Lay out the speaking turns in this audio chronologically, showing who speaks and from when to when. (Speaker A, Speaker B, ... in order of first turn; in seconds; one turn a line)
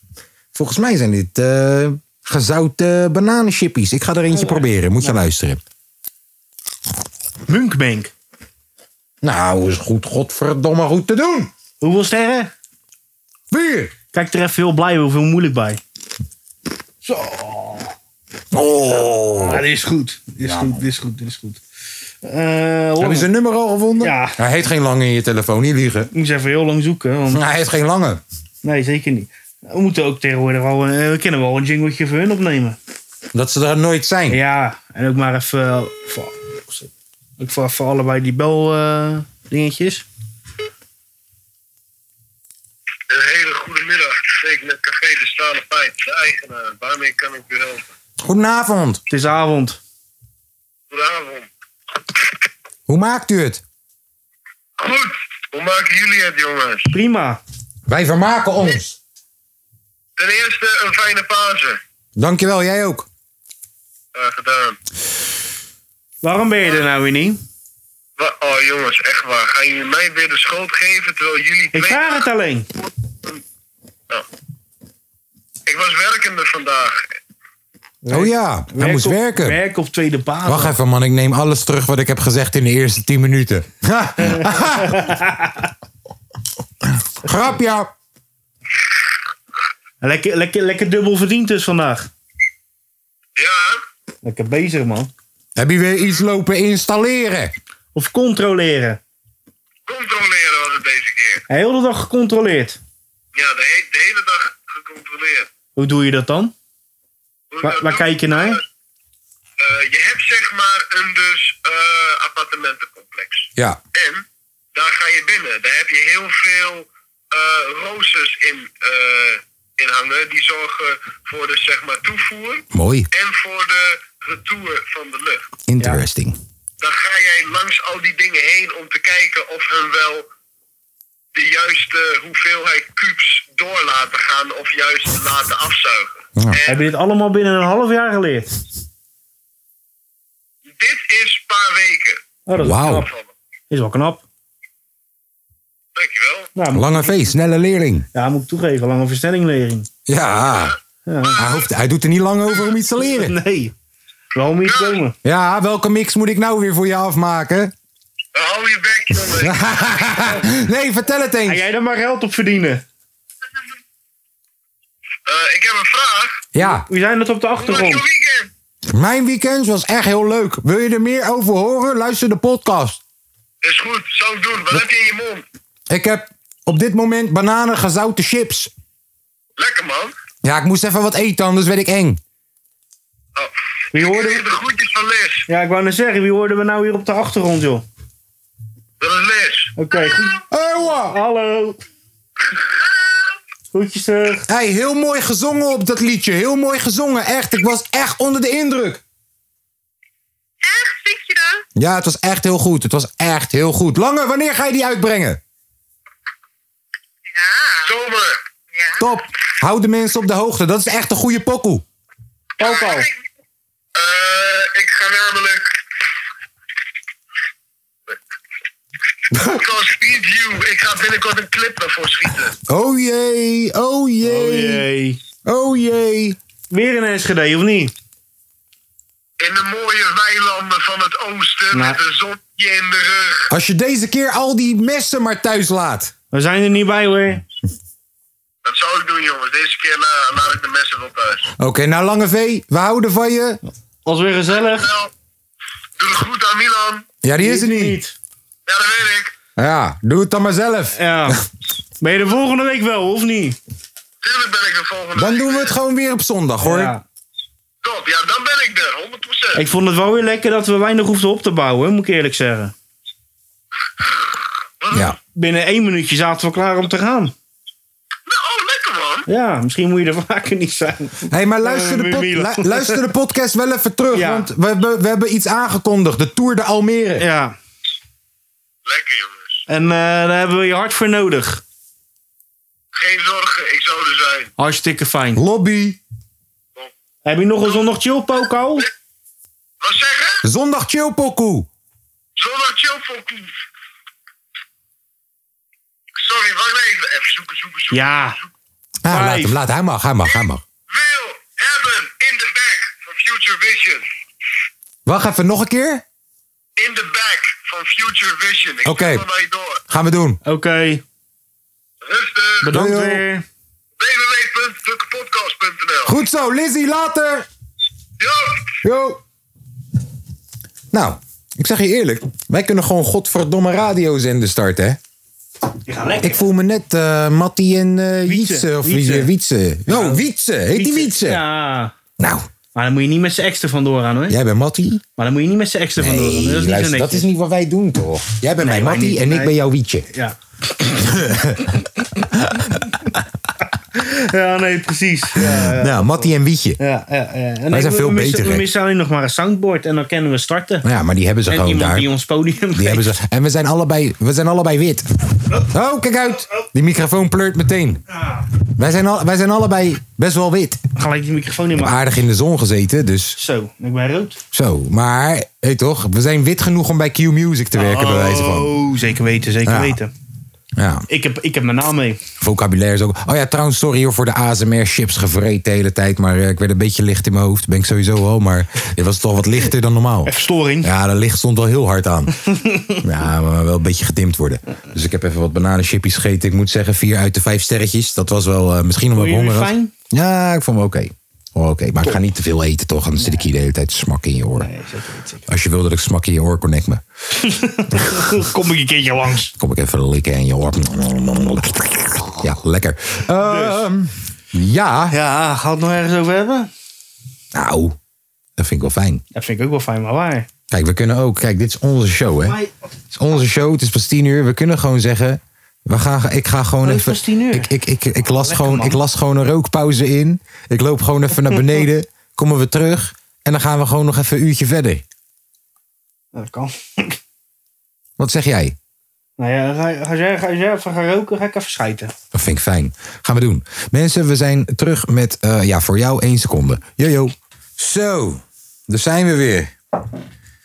Speaker A: 0.5-5.6
Speaker B: 4.3-5.2
Speaker B: 7.5-8.1
Speaker A: 9.2-11.5
Speaker B: 11.8-12.5
Speaker A: 13.5-13.9
Speaker B: 14.1-15.8
Speaker B: 17.0-17.9
Speaker A: 18.5-19.6
Speaker B: 19.4-21.6
Speaker A: 20.4-20.8
Speaker B: 22.2-23.3
Speaker A: 23.0-26.1
Speaker B: 24.0-24.4
Speaker B: 26.1-27.4
Speaker A: 27.3-28.2
Speaker B: 28.6-32.8
Speaker A: 33.3-34.4
Speaker B: 34.3-40.1
Speaker C: 43.1-47.9
Speaker A: 48.2-49.0
Speaker B: 49.1-49.8
Speaker C: 50.9-51.5
Speaker A: 52.9-53.6
Speaker C: 54.8-56.9
Speaker B: 56.9-57.4
Speaker A: 57.9-59.0
Speaker C: 60.2-61.8
Speaker A: 62.2-63.1
Speaker C: 64.2-64.8
Speaker B: 66.2-67.4
Speaker C: 68.2-72.3
Speaker B: 71.7-72.7
Speaker C: 75.7-77.1
Speaker B: 78.0-80.8
Speaker A: 78.1-79.6
Speaker A: 80.5-85.1
Speaker B: 84.2-85.7
Speaker A: 86.8-87.9
Speaker B: 90.0-92.1
Speaker C: 93.4-93.8
Speaker B: 94.2-95.1
Speaker A: 95.6-97.5
Speaker B: 98.0-99.0
Speaker C: 99.9-101.4
Speaker B: 101.5-102.8
Speaker C: 103.3-105.5
Speaker B: 105.8-106.5
Speaker C: 107.5-108.6
Speaker B: 107.6-108.6
Speaker C: 109.6-125.5
Speaker A: 122.7-123.1
Speaker A: 125.7-126.4
Speaker C: 126.8-130.3
Speaker C: 131.3-136.9
Speaker A: 136.4-136.6
Speaker B: 136.7-138.5
Speaker C: 140.7-142.2
Speaker B: 142.5-143.1
Speaker A: 142.6-143.1
Speaker C: 142.9-143.3
Speaker B: 143.7-144.2
Speaker C: 145.9-146.5
Speaker B: 146.6-147.3
Speaker A: 146.7-148.1
Speaker B: 148.1-149.9
Speaker A: 150.1-150.8
Speaker C: 150.4-151.7
Speaker B: 151.1-151.4
Speaker A: 151.4-153.4
Speaker B: 153.0-153.7
Speaker B: 154.3-155.2
Speaker C: 154.6-155.0
Speaker A: 155.2-157.7
Speaker C: 158.3-160.3
Speaker A: 159.1-161.7
Speaker B: 161.5-162.8
Speaker C: 165.3-166.5
Speaker A: 166.5-166.9
Speaker B: 166.6-168.0
Speaker C: 167.6-168.5
Speaker A: 168.9-173.0
Speaker C: 173.6-175.4
Speaker A: 175.9-178.7
Speaker C: 179.6-180.1
Speaker A: 180.4-182.2
Speaker C: 183.4-185.5
Speaker B: 183.9-184.4
Speaker B: 185.5-187.8
Speaker C: 189.0-189.7
Speaker B: 189.8-190.4
Speaker A: 190.5-191.2
Speaker B: 191.0-191.8
Speaker B: 193.7-194.5
Speaker A: 194.5-199.0
Speaker D: 200.6-201.6
Speaker A: 201.8-205.4
Speaker D: 207.3-207.9
Speaker C: 207.8-208.4
Speaker D: 208.8-209.0
Speaker A: 209.0-211.8
Speaker B: 212.6-213.1
Speaker C: 212.6-213.1
Speaker C: 213.9-215.8
Speaker A: 219.3-219.6
Speaker C: 219.4-222.6
Speaker A: 222.7-224.9
Speaker B: 224.2-225.2
Speaker A: 225.4-226.4
Speaker B: 226.7-227.9
Speaker C: 229.4-233.5
Speaker B: 231.7-232.0
Speaker A: 233.5-236.1
Speaker B: 236.3-237.4
Speaker C: 238.6-241.5
Speaker A: 241.6-243.6
Speaker B: 244.1-244.9
Speaker C: 244.6-245.1
Speaker C: 246.0-247.1
Speaker A: 247.2-248.0
Speaker B: 247.4-248.2
Speaker C: 248.7-249.3
Speaker A: 249.6-251.4
Speaker B: 250.9-251.4
Speaker B: 252.0-253.6
Speaker C: 254.2-255.7
Speaker A: 255.2-256.9
Speaker B: 256.6-257.0
Speaker C: 257.8-259.6
Speaker B: 259.5-262.7
Speaker C: 264.8-265.1
Speaker A: 264.9-265.2
Speaker B: 265.3-267.4
Speaker C: 268.3-269.3
Speaker B: 269.3-273.1
Speaker A: 271.3-277.3
Speaker B: 274.1-274.5
Speaker B: 277.2-277.6
Speaker C: 278.9-279.7
Speaker B: 279.7-281.6
Speaker C: 282.9-284.5
Speaker B: 284.6-285.4
Speaker A: 285.4-286.0
Speaker B: 287.2-288.9
Speaker C: 289.8-290.4
Speaker A: 290.4-291.7
Speaker C: 292.4-293.5
Speaker C: 296.2-298.5
Speaker B: 297.9-298.4
Speaker A: 299.0-300.6
Speaker B: 299.1-299.6
Speaker C: 300.9-304.1
Speaker A: 305.1-306.0
Speaker C: 306.8-309.8
Speaker A: 308.9-309.2
Speaker A: 309.9-310.4
Speaker B: 310.4-311.0
Speaker C: 312.0-312.8
Speaker B: 312.6-313.4
Speaker A: 312.7-313.2
Speaker C: 314.0-316.2
Speaker A: 316.1-317.5
Speaker C: 318.2-318.7
Speaker A: 318.8-319.2
Speaker A: 320.9-325.0
Speaker B: 325.9-326.4
Speaker A: 326.2-331.4
Speaker B: 328.3-329.3
Speaker B: 329.9-331.9
Speaker A: 332.2-332.5
Speaker B: 332.8-334.4
Speaker A: 334.3-335.0
Speaker B: 335.2-337.3
Speaker A: 336.0-340.1
Speaker B: 338.6-339.6
Speaker B: 340.1-341.3
Speaker A: 341.0-343.2
Speaker B: 343.9-350.9
Speaker A: 345.4-346.8
Speaker A: 347.7-348.7
Speaker A: 350.8-352.1
Speaker B: 351.5-353.2
Speaker A: 352.7-358.0
Speaker B: 358.1-358.4
Speaker A: 358.7-360.8
Speaker B: 361.0-362.0
Speaker A: 361.8-363.4
Speaker B: 363.4-364.4
Speaker A: 364.5-368.8
Speaker B: 367.8-370.1
Speaker A: 369.6-370.0
Speaker A: 370.8-371.1
Speaker B: 371.1-372.2
Speaker A: 372.4-382.4
Speaker B: 380.3-380.9
Speaker B: 382.4-383.0
Speaker A: 383.0-394.7
Speaker B: 389.1-389.9
Speaker B: 393.2-393.5
Speaker B: 394.6-395.5
Speaker A: 395.5-397.0
Speaker B: 397.3-399.5
Speaker A: 397.9-398.4
Speaker A: 399.6-405.1
Speaker B: 403.4-403.9
Speaker B: 405.1-406.7
Speaker A: 407.5-408.0
Speaker A: 408.6-409.2
Speaker B: 409.3-410.5
Speaker A: 410.7-412.6
Speaker B: 412.4-412.8
Speaker A: 413.1-425.0
Speaker B: 416.8-419.0
Speaker B: 426.3-427.2
Speaker A: 428.2-428.8
Speaker B: 429.4-432.1
Speaker A: 432.3-439.7